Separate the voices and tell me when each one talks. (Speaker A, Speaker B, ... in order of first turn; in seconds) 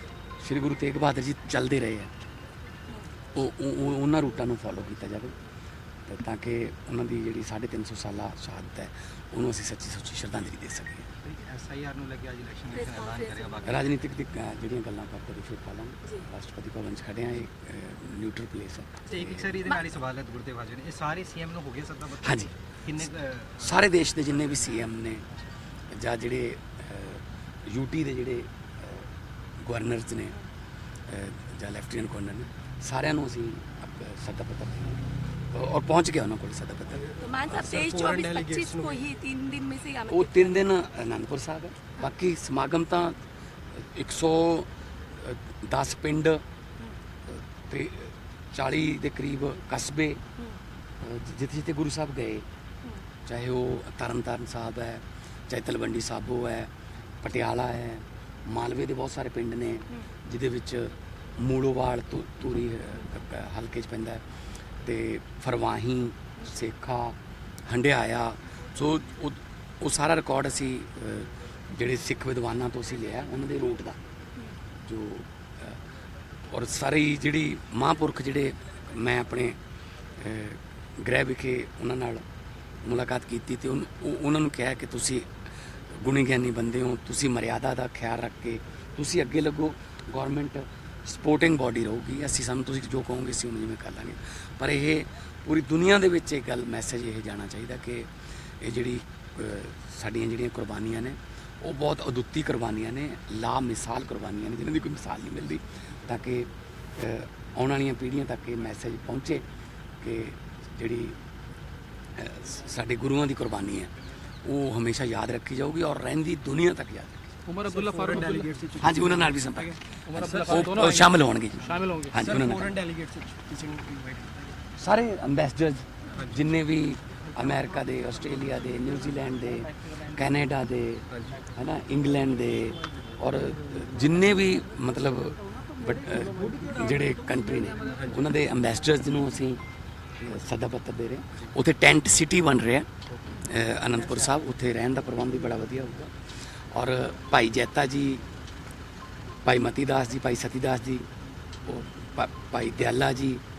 Speaker A: 0.4-2.1, 3.3-5.3, 6.1-11.1, 13.7-19.5, 22.2-22.5, 23.6-25.3, 25.9-29.1, 29.6-30.4, 31.1-37.1, 40.1-43.2, 43.8-46.4, 47.3-50.2, 51.0-52.5, 53.2-56.7, 57.2-64.2, 64.8-74.0, 74.8-75.8, 76.5-79.6, 80.1-82.2, 82.8-85.3, 85.9-109.5, 110.0-111.2, 112.2-117.4, 118.8-122.8, 124.8-139.6, 140.2-148.2, 149.4-151.1, 151.7-153.4
Speaker B: 11.2-14.0, 19.1-23.9, 37.5-39.1, 117.6-119.4, 120.1-120.7, 122.1-124.6, 131.1-131.4, 137.8-138.2
Speaker C: 12.7-13.7, 37.2-40.6
Speaker D: 117.5-118.5, 119.6-121.1, 121.6-122.1